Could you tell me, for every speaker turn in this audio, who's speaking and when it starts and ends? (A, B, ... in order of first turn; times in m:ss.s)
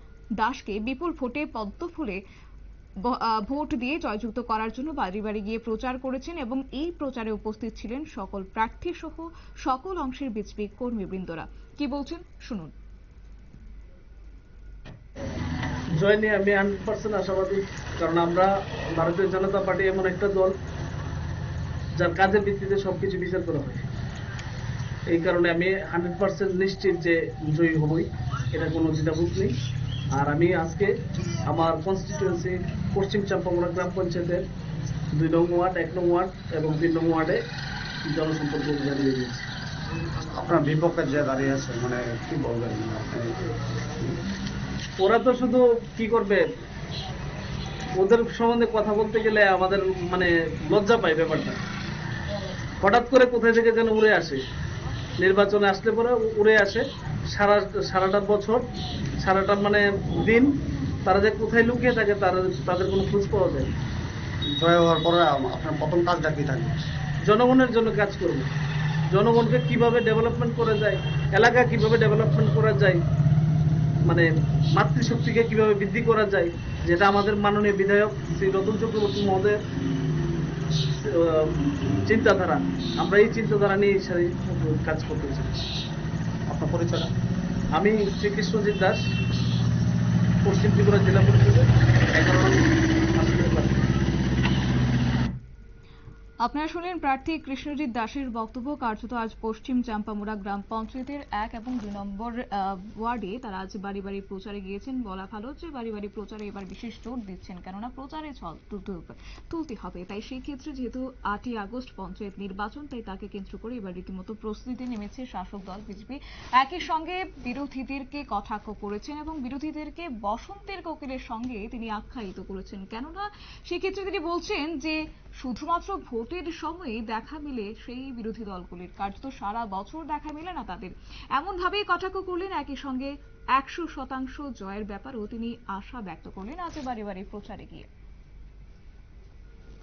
0:00.4-0:02.2 A
0:03.0-0:12.7 A
0:16.0-0:20.5 B
0:22.0-0:23.9 B
0:25.1-0:29.5 B
0:30.1-0:30.9 B
0:31.5-0:34.4 B
0:35.1-0:37.4 B
0:38.1-0:39.5 B
0:40.4-0:43.5 C
0:45.0-0:46.5 B
0:48.0-0:51.6 B
0:52.8-0:54.4 B
0:55.2-0:58.6 B
0:59.2-1:03.7 B
1:04.5-1:06.8 C
1:07.2-1:08.5 B
1:09.1-1:13.0 B
1:14.1-1:19.6 B
1:21.0-1:25.5 B
1:26.5-1:27.1 C
1:27.8-1:29.0 B
1:30.4-1:33.9 B
1:36.4-2:17.9 A